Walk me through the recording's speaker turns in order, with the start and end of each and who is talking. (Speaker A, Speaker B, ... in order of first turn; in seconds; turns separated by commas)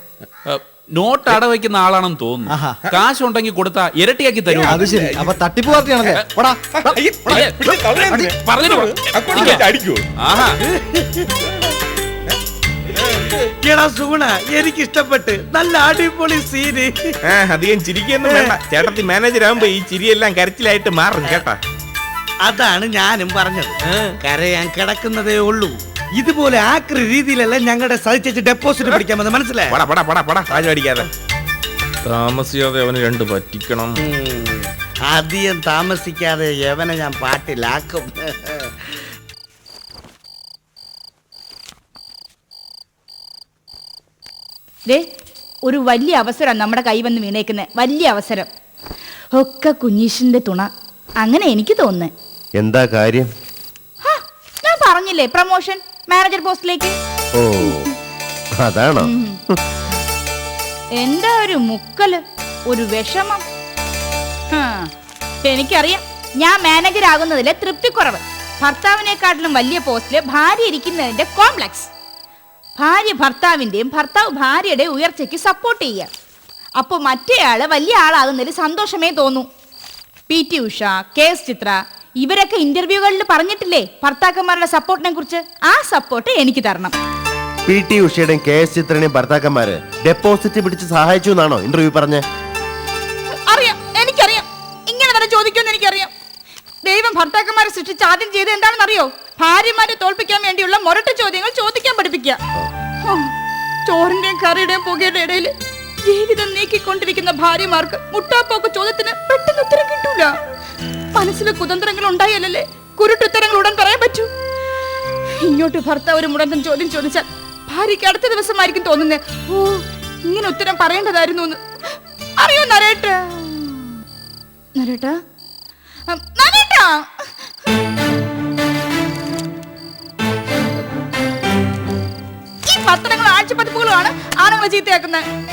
Speaker A: 0.5-5.1, Speaker B: 2.5-2.9, Speaker C: 4.5-5.4, Speaker B: 4.7-8.3, Speaker A: 6.0-6.3, Speaker C: 6.7-10.1, Speaker A: 7.2-7.7, Speaker A: 8.3-9.7, Speaker A: 10.2-10.6, Speaker D: 10.7-11.3, Speaker D: 13.1-16.9, Speaker C: 17.3-21.6, Speaker D: 18.2-18.8, Speaker D: 22.4-29.8, Speaker C: 29.7-31.1, Speaker C: 32.0-34.0, Speaker D: 34.0-39.0, Speaker E: 45.6-48.5, Speaker E: 49.3-50.7, Speaker E: 51.2-52.1, Speaker F: 52.6-53.3, Speaker E: 54.0-56.9, Speaker F: 57.4-57.7, Speaker E: 57.6-57.8, Speaker F: 58.6-59.6, Speaker E: 59.0-59.4, Speaker E: 61.0-63.4, Speaker E: 64.5-64.9, Speaker E: 65.4-71.9, Speaker E: 72.8-76.1, Speaker E: 76.8-79.5, Speaker E: 80.3-86.9, Speaker F: 87.7-92.2, Speaker E: 93.5-96.1, Speaker E: 96.8-102.4, Speaker E: 103.8-105.5, Speaker E: 106.0-110.3, Speaker E: 111.1-114.3, Speaker E: 115.4-121.6, Speaker E: 122.4-124.0, Speaker E: 124.8-125.2, Speaker E: 126.1-127.3, Speaker E: 132.7-135.2